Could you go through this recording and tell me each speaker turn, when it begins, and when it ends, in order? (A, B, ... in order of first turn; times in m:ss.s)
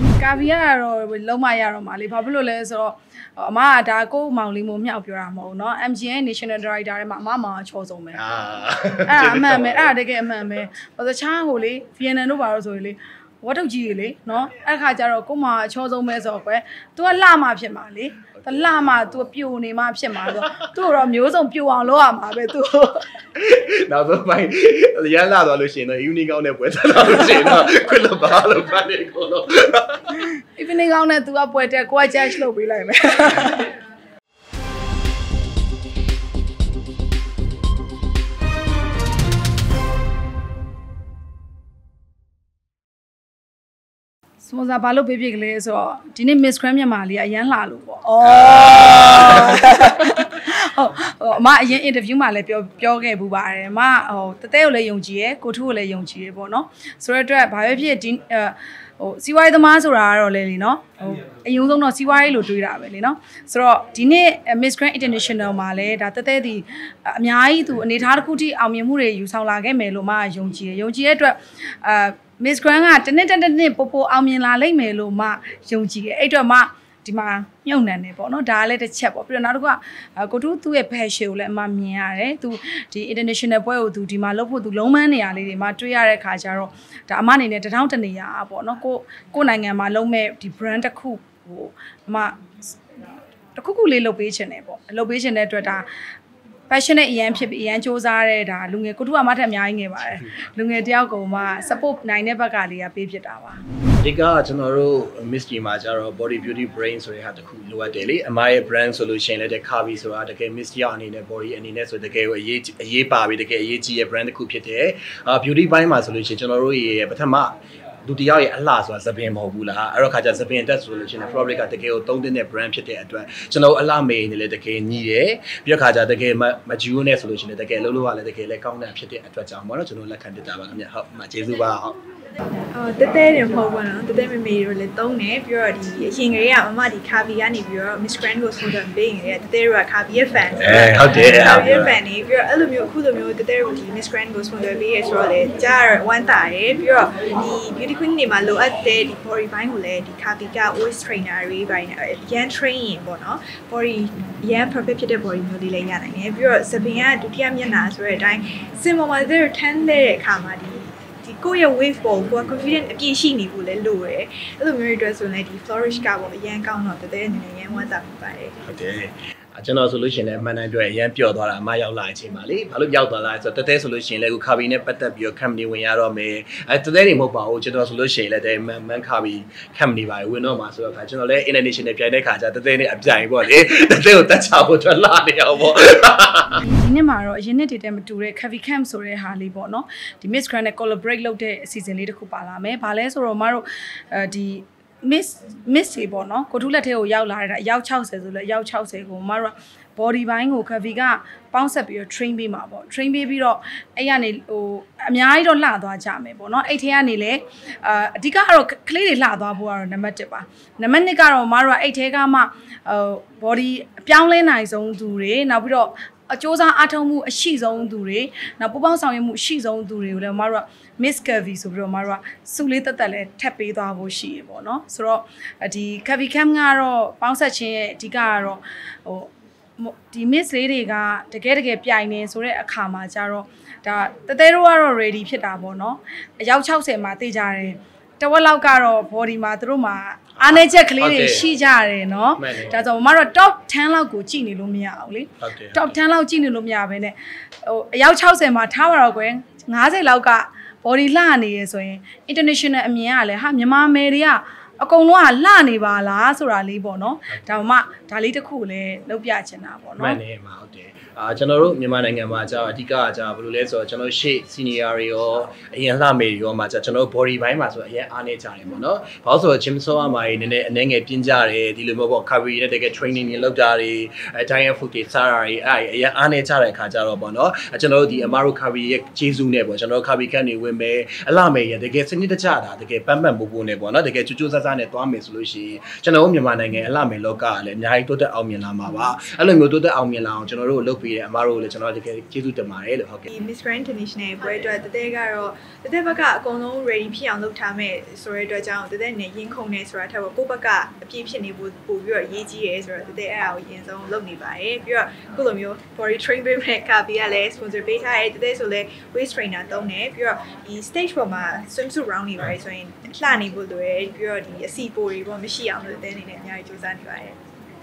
0:00.2-0:08.2 A
0:08.1-0:09.9 B
0:09.1-0:23.1 A
0:18.4-0:18.8 B
0:20.3-0:20.6 B
0:23.3-0:30.2 B
0:30.4-0:33.8 A
0:44.4-1:35.9 A
0:49.0-0:49.2 B
1:36.7-1:43.6 A
1:44.0-2:12.0 B
2:12.8-2:48.6 C
2:20.5-2:22.0 B
2:48.7-3:06.6 B
3:06.6-4:20.2 A
4:00.4-4:01.5 B
4:02.4-4:02.8 B
4:05.4-4:05.9 B
4:20.0-4:53.3 B
4:53.3-5:17.4 C